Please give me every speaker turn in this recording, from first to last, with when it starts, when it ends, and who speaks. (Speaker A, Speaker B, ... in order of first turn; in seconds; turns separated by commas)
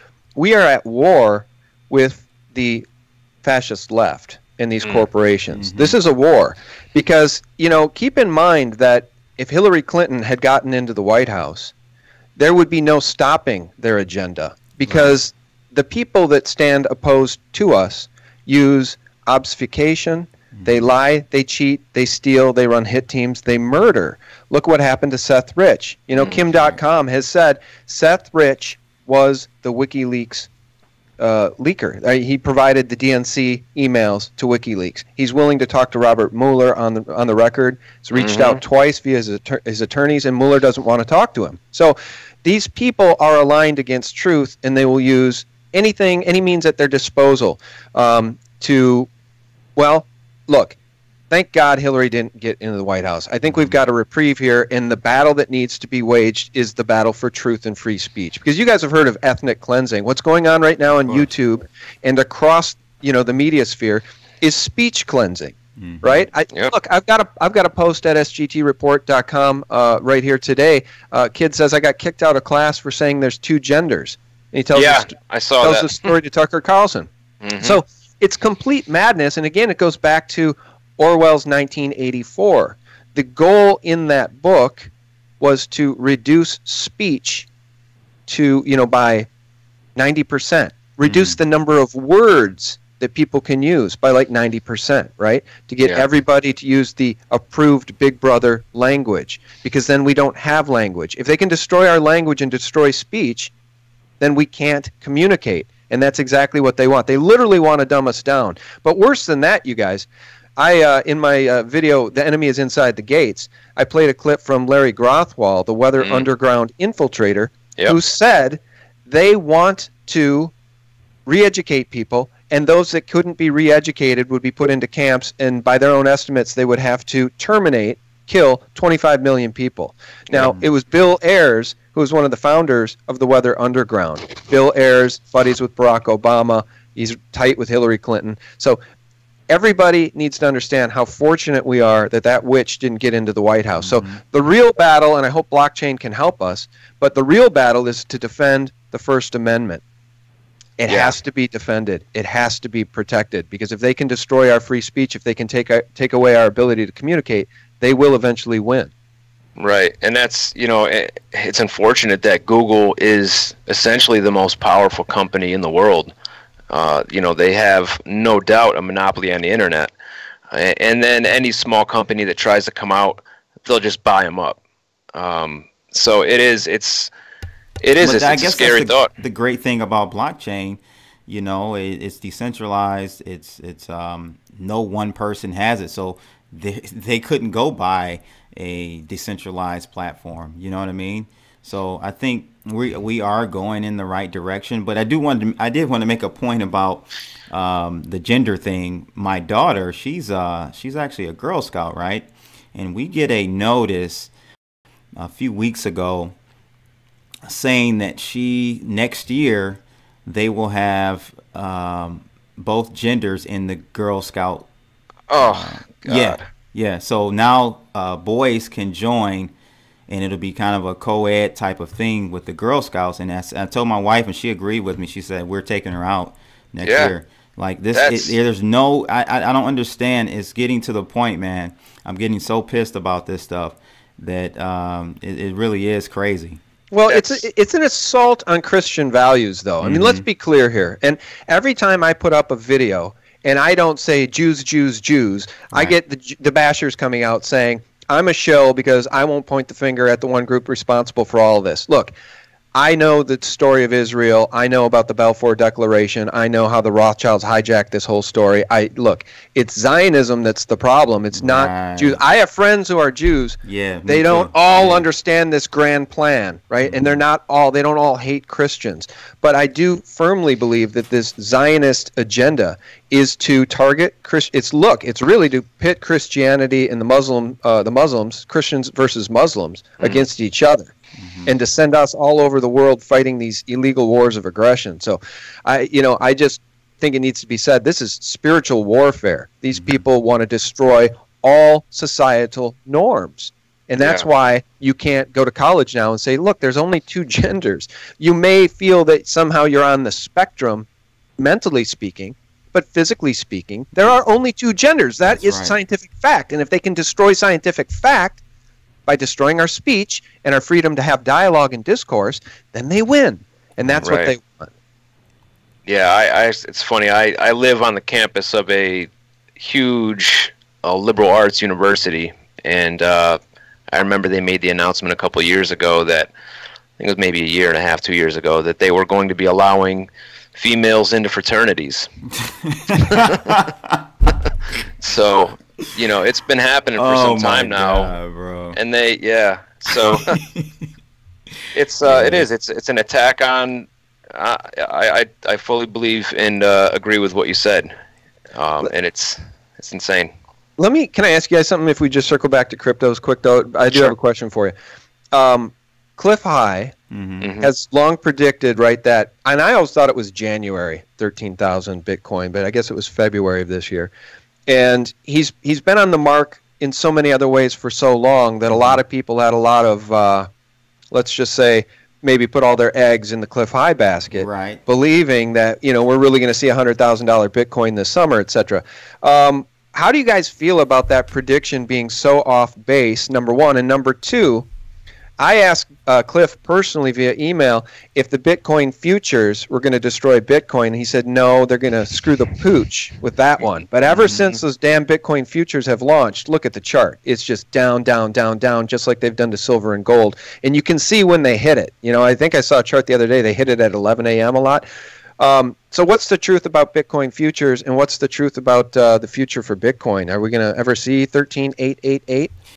Speaker A: 0.3-2.9, Speaker A: 3.4-11.7, Speaker B: 5.5-6.0, Speaker A: 12.4-30.5, Speaker B: 20.6-20.8, Speaker A: 31.2-49.1, Speaker C: 38.2-38.6, Speaker A: 49.8-50.8, Speaker A: 51.3-87.5, Speaker B: 53.5-53.8, Speaker B: 65.8-66.3, Speaker C: 74.8-76.1, Speaker C: 77.4-77.8, Speaker A: 88.3-89.3, Speaker A: 90.0-103.5, Speaker B: 91.0-91.4, Speaker A: 104.2-110.1, Speaker A: 110.6-120.5, Speaker C: 116.0-116.3, Speaker A: 121.3-138.8, Speaker B: 130.4-130.7, Speaker A: 139.5-149.8, Speaker B: 143.8-144.1, Speaker A: 150.8-158.9, Speaker C: 150.9-151.2, Speaker C: 159.6-166.1, Speaker C: 166.7-169.9, Speaker C: 170.5-174.6, Speaker C: 175.1-177.1, Speaker C: 177.8-179.1, Speaker B: 178.0-204.3, Speaker B: 205.2-206.4, Speaker B: 207.4-214.7, Speaker C: 215.3-216.4, Speaker B: 215.4-219.5, Speaker B: 220.1-236.6, Speaker C: 226.8-227.1, Speaker C: 227.9-228.3, Speaker A: 236.9-252.1, Speaker C: 237.1-237.4, Speaker B: 239.8-240.2, Speaker A: 252.8-280.9, Speaker B: 261.3-262.2, Speaker B: 263.6-265.1, Speaker B: 266.8-267.2, Speaker B: 281.2-281.5, Speaker A: 281.5-300.9, Speaker B: 289.7-290.0, Speaker C: 294.0-294.3, Speaker A: 301.4-308.4, Speaker B: 305.3-305.8, Speaker A: 309.1-314.7, Speaker C: 314.0-314.3, Speaker C: 315.9-323.4, Speaker C: 323.9-326.3, Speaker C: 327.0-332.1, Speaker B: 332.4-334.0, Speaker C: 333.0-333.6, Speaker C: 335.0-338.1, Speaker B: 337.0-338.8, Speaker C: 338.8-340.4, Speaker B: 340.1-340.7, Speaker C: 341.7-347.9, Speaker B: 342.0-342.5, Speaker C: 348.5-350.3, Speaker A: 350.8-354.8, Speaker A: 355.3-356.9, Speaker B: 357.1-357.5, Speaker C: 357.4-357.7, Speaker A: 357.6-364.1, Speaker A: 364.7-370.5, Speaker B: 368.7-369.0, Speaker A: 371.1-384.7, Speaker B: 374.3-374.8, Speaker A: 385.4-404.9, Speaker A: 405.4-412.5